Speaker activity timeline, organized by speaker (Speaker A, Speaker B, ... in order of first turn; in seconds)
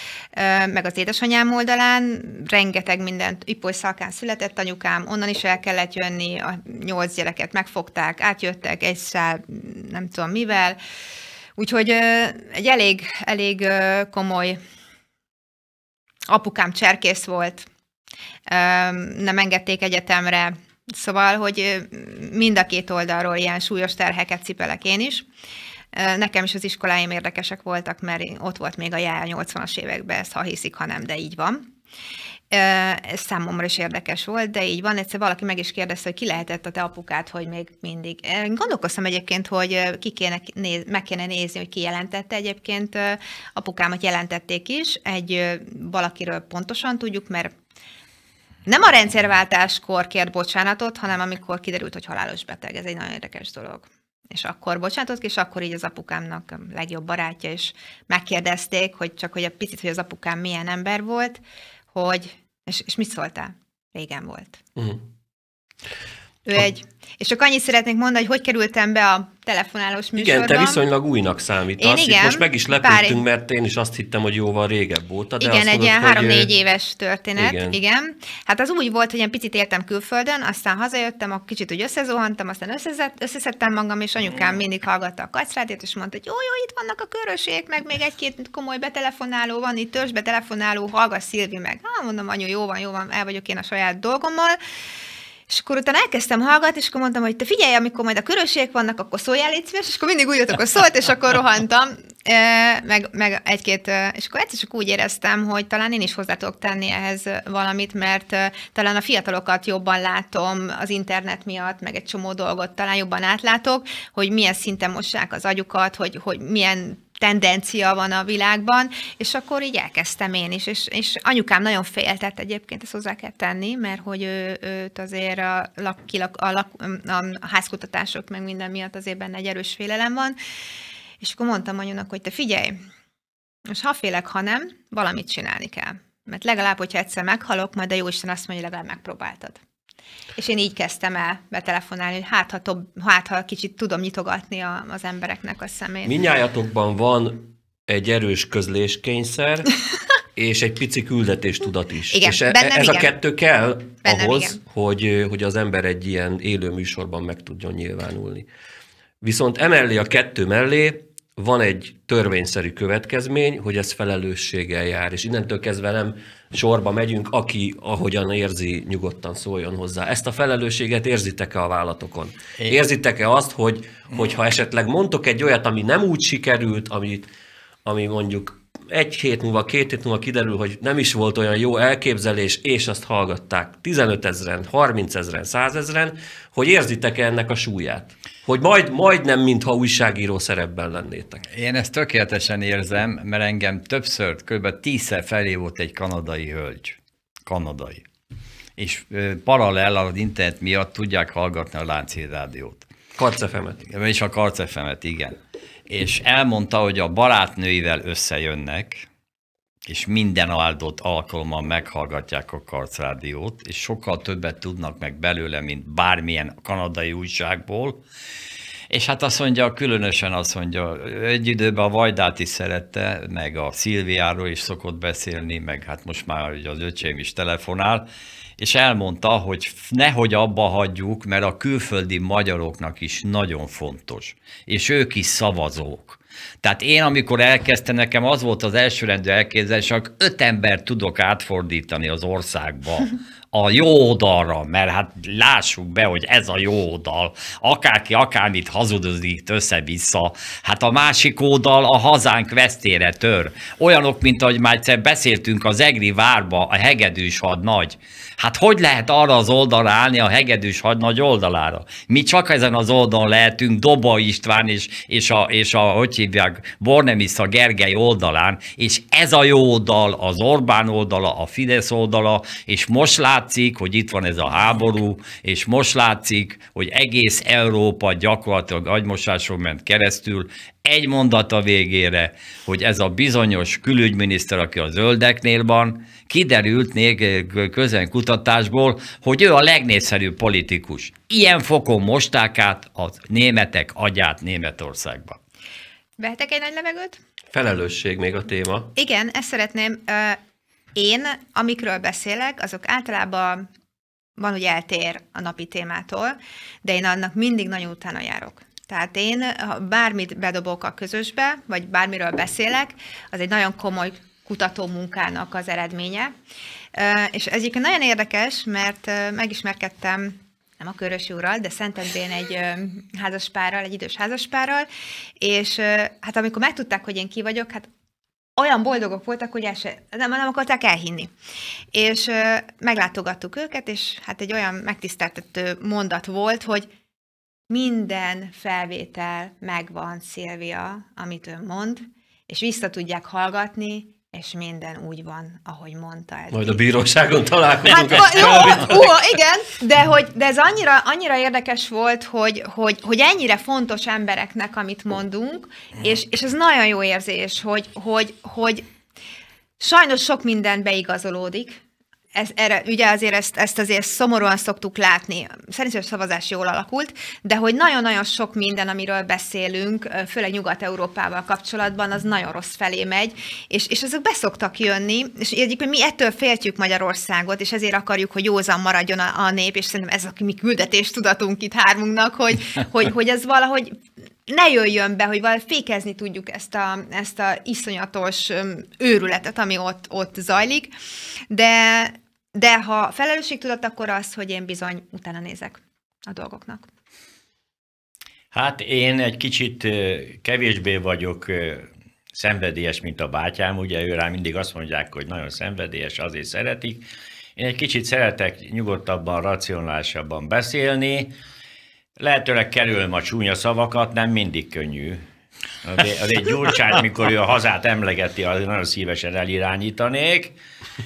Speaker A: 0.3-10.8, 11.6-14.6, 16.3-17.7, 18.5-25.3, 25.9-31.7, 32.5-47.5, 48.7-61.4, 61.9-64.6, 66.5-70.8, 71.8-73.2, 75.4-94.6, 95.5-130.4, 131.2-132.8, 133.7-139.6, 140.4-146.1, 152.1-153.1, 154.0-154.6, 296.2-297.2, 298.9-300.4, 300.9-303.7, 304.4-316.3, 316.9-324.9, 325.4-327.9, 328.6-331.3, 331.9-336.9, 337.7-346.8, 347.9-358.9, 359.8-361.8, 362.3-390.9, 391.5-396.9
Speaker B: 64.8-65.0, 70.2-76.5, 77.4-77.8, 146.0-149.7, 150.3-158.5, 159.2-177.3, 177.8-191.4, 203.2-203.8, 297.5-298.9, 346.5-349.1
Speaker C: 191.5-198.1, 198.8-202.9, 203.8-205.4, 205.9-209.1, 209.9-218.0, 218.9-228.1, 228.6-295.4
Speaker D: 398.5-407.0, 407.6-411.3, 412.2-415.2, 415.8-420.6